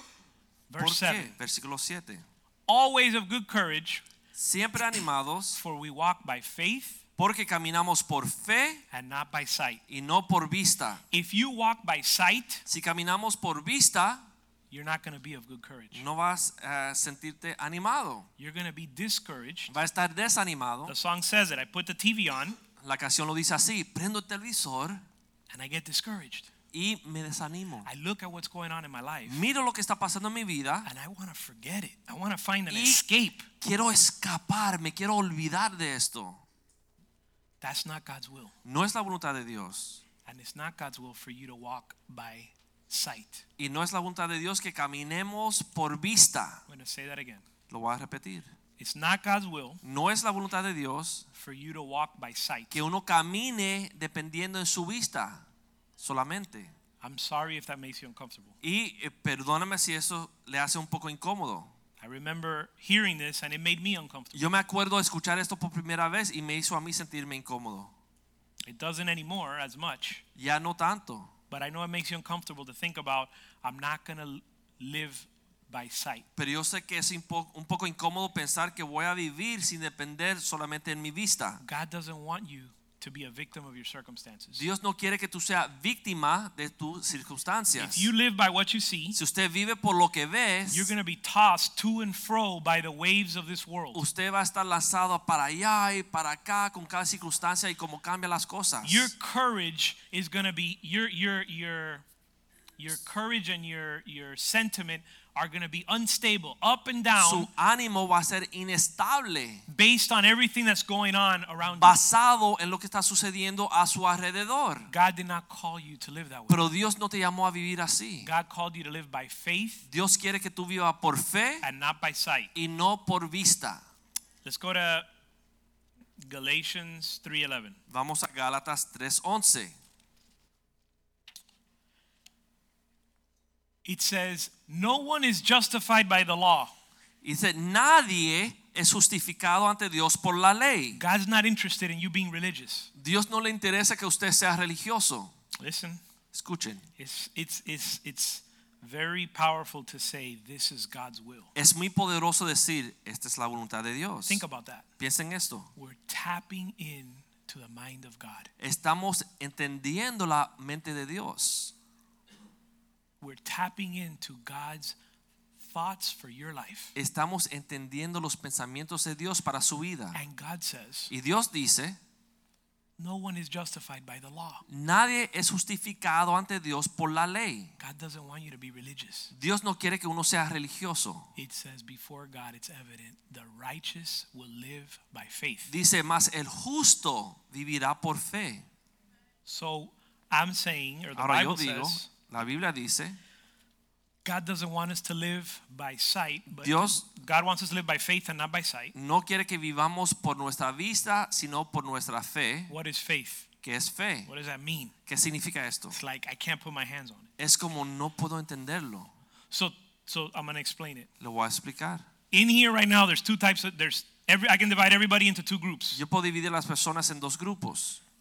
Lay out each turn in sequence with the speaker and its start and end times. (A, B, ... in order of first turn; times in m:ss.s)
0:00.7-0:01.3 A
0:00.8-0:02.2 B
0:02.7-0:04.0 A
0:04.3-0:05.6 B
0:05.5-0:07.0 A
0:07.2-0:08.8 B
0:08.9-0:09.8 A
0:09.9-0:11.0 B
0:11.1-0:12.6 A
0:12.7-0:14.2 B
0:14.7-0:16.0 A
0:15.9-0:18.3 B
0:18.4-0:19.8 A
0:19.7-0:20.9 B
0:20.8-0:22.6 A
0:22.8-0:25.0 B
0:25.5-0:26.5 A
0:26.7-0:27.9 B
0:27.8-0:29.4 A
0:29.3-0:30.9 B
0:30.8-0:33.5 A
0:32.7-0:33.0 B
0:33.6-0:36.4 B
0:37.6-0:38.5 A
0:38.6-0:40.0 B
0:40.2-0:43.4 A
0:43.6-0:46.6 B
0:46.7-0:47.4 A
0:47.7-0:48.5 B
0:48.8-0:49.8 A
0:49.8-0:51.2 B
0:51.3-0:52.8 A
0:52.7-0:55.4 B
0:56.0-0:56.7 B
0:57.0-0:58.5 A
0:58.6-1:01.7 B
1:02.0-1:04.4 A
1:04.3-1:07.9 B
1:08.7-1:10.2 A
1:10.4-1:11.3 B
1:11.5-1:16.2 A
1:16.4-1:21.6 B
1:21.6-1:24.6 A
1:24.6-1:28.1 B
1:27.8-1:29.2 A
1:29.1-1:30.9 B
1:30.7-1:34.0 A
1:33.9-1:39.1 B
1:38.8-1:42.0 A
1:42.8-1:47.5 A
1:47.2-1:49.6 B
1:49.7-1:52.0 A
1:51.7-1:54.9 B
1:54.9-1:56.7 A
1:56.5-1:58.3 B
1:58.2-1:59.8 A
1:59.9-2:01.6 B
2:01.6-2:02.5 A
2:02.5-2:03.8 B
2:04.4-2:05.0 A
2:06.2-2:07.8 A
2:07.9-2:09.7 B
2:13.8-2:16.7 A
2:17.2-2:21.0 B
2:20.9-2:22.9 A
2:23.0-2:25.3 B
2:25.6-2:26.0 A
2:26.3-2:26.8 B
2:27.0-2:31.5 A
2:31.5-2:34.4 B
2:34.2-2:34.8 A
2:35.0-2:35.7 B
2:35.8-2:38.5 A
2:38.6-2:41.7 B
2:43.2-2:45.0 A
2:45.6-2:46.9 A
2:46.9-2:50.2 B
2:50.1-2:51.1 A
2:51.1-2:52.0 B
2:53.0-2:54.6 A
2:54.7-2:57.7 B
2:57.8-2:59.3 A
2:59.3-3:01.3 B
3:01.4-3:05.7 A
3:05.7-3:08.6 B
3:09.4-3:12.1 A
3:11.2-3:13.2 B
3:14.2-3:18.9 A
3:16.5-3:17.0 B
3:18.9-3:22.7 B
3:22.7-3:23.4 A
3:23.6-3:24.3 B
3:24.3-3:24.9 A
3:25.1-3:26.0 B
3:25.9-3:27.3 A
3:27.4-3:29.1 B
3:29.5-3:31.1 A
3:31.2-3:32.0 B
3:32.3-3:36.0 A
3:35.9-3:38.0 B